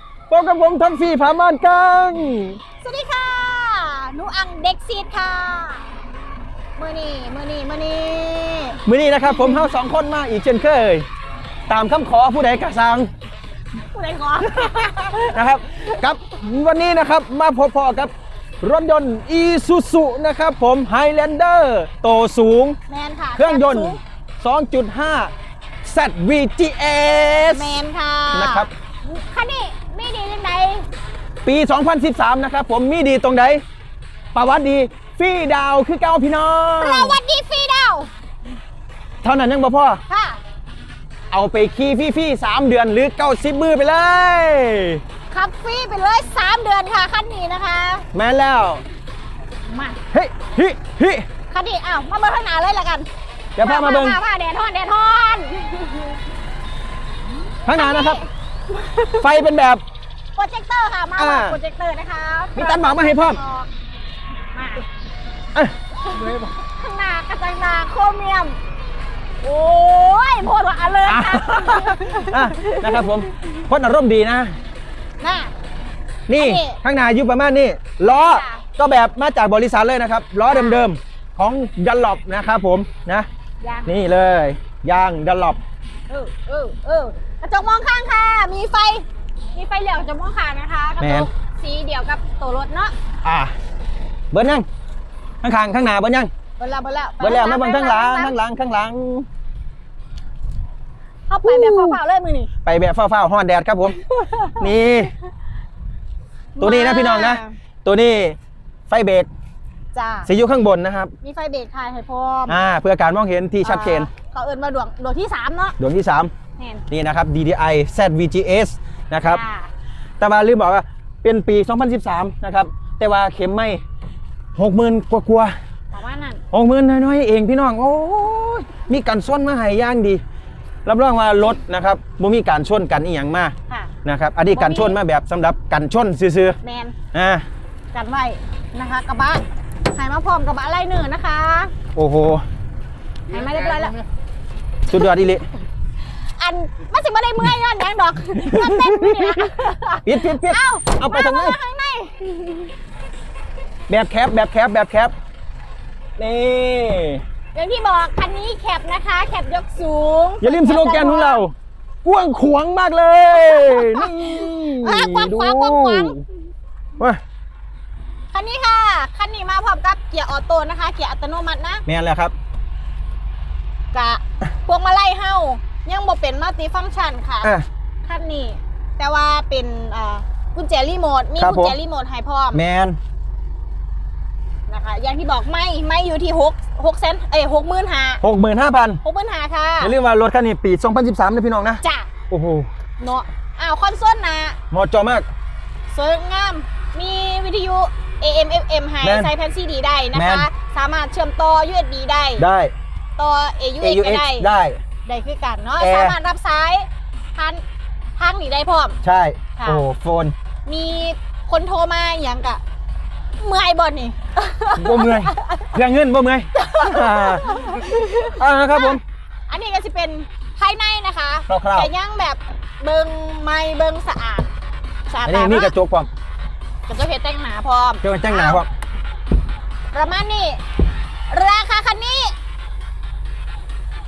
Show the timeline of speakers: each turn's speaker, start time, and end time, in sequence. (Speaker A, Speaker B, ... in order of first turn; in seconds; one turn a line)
Speaker A: 0.3-2.6
Speaker B: 2.8-5.8
Speaker B: 6.8-8.8
Speaker A: 8.8-11.1
Speaker B: 9.3-9.6
Speaker A: 11.7-13.1
Speaker B: 13.9-16.0
Speaker A: 14.5-22.8
Speaker B: 22.9-24.0
Speaker A: 23.4-25.3
Speaker A: 25.8-27.8
Speaker B: 27.5-30.9
Speaker A: 28.3-28.7
Speaker A: 31.4-33.6
Speaker A: 34.3-37.2
Speaker B: 36.8-38.1
Speaker A: 39.2-40.0
Speaker B: 40.1-40.4
Speaker A: 41.3-45.0
Speaker B: 45.3-48.1
Speaker A: 48.1-48.8
Speaker B: 49.7-50.0
Speaker A: 50.1-51.3
Speaker B: 51.5-53.1
Speaker A: 53.6-54.2
Speaker B: 53.6-56.2
Speaker A: 57.7-58.2
Speaker B: 57.7-59.4
Speaker A: 59.2-59.8
Speaker B: 60.4-63.7
Speaker A: 61.2-61.6
Speaker A: 62.6-63.4
Speaker B: 64.5-64.8
Speaker B: 66.0-68.6
Speaker B: 69.4-73.1
Speaker A: 71.1-74.5
Speaker B: 75.2-75.5
Speaker A: 76.3-83.3
Speaker B: 76.4-76.8
Speaker B: 78.0-78.7
Speaker B: 80.5-80.8
Speaker B: 83.6-83.9
Speaker A: 83.9-85.6
Speaker B: 86.1-93.0
Speaker A: 91.0-91.3
Speaker A: 93.2-93.5
Speaker A: 94.3-94.7
Speaker A: 95.4-96.3
Speaker B: 96.6-98.3
Speaker A: 97.2-99.3
Speaker B: 101.3-102.5
Speaker A: 101.4-102.0
Speaker A: 102.7-104.0
Speaker B: 104.0-104.7
Speaker A: 104.6-105.1
Speaker B: 106.6-107.5
Speaker A: 106.6-108.4
Speaker A: 108.9-109.3
Speaker B: 109.9-110.3
Speaker A: 110.3-111.1
Speaker B: 111.2-112.6
Speaker A: 112.5-114.1
Speaker B: 113.6-115.8
Speaker A: 115.8-116.3
Speaker B: 116.6-116.8
Speaker A: 116.9-119.4
Speaker B: 119.2-119.7
Speaker A: 120.2-123.8
Speaker A: 124.6-125.5
Speaker B: 125.9-126.4
Speaker A: 126.5-130.2
Speaker A: 130.9-133.5
Speaker A: 134.1-136.6
Speaker B: 134.5-135.0
Speaker B: 136.6-136.9
Speaker A: 137.1-137.4
Speaker B: 137.9-141.7
Speaker A: 141.9-142.4
Speaker B: 143.3-144.0
Speaker A: 144.9-145.4
Speaker B: 146.4-152.7
Speaker A: 148.4-149.5
Speaker A: 150.1-151.6
Speaker A: 153.9-155.1
Speaker A: 156.2-157.2
Speaker B: 157.5-161.4
Speaker A: 160.4-166.2
Speaker B: 163.3-166.2
Speaker B: 168.3-171.8
Speaker A: 171.9-172.3
Speaker B: 173.9-177.5
Speaker B: 178.0-182.6
Speaker A: 181.4-181.8
Speaker A: 182.5-183.0
Speaker B: 184.7-188.2
Speaker A: 188.2-189.0
Speaker B: 189.0-189.9
Speaker A: 189.8-192.7
Speaker B: 191.8-192.1
Speaker B: 193.0-194.6
Speaker A: 194.7-195.3
Speaker B: 195.9-202.4
Speaker A: 199.0-199.3
Speaker A: 200.1-200.5
Speaker A: 202.4-202.7
Speaker B: 203.2-204.5
Speaker A: 203.8-204.8
Speaker B: 205.1-207.6
Speaker A: 205.8-206.2
Speaker B: 208.2-209.0
Speaker A: 209.0-210.3
Speaker B: 209.6-209.9
Speaker B: 210.7-212.6
Speaker B: 213.4-215.8
Speaker A: 214.8-219.0
Speaker B: 216.6-224.5
Speaker A: 221.5-221.9
Speaker B: 225.1-225.7
Speaker A: 225.2-226.1
Speaker B: 226.9-228.6
Speaker A: 228.0-228.7
Speaker B: 229.9-230.6
Speaker B: 231.3-232.3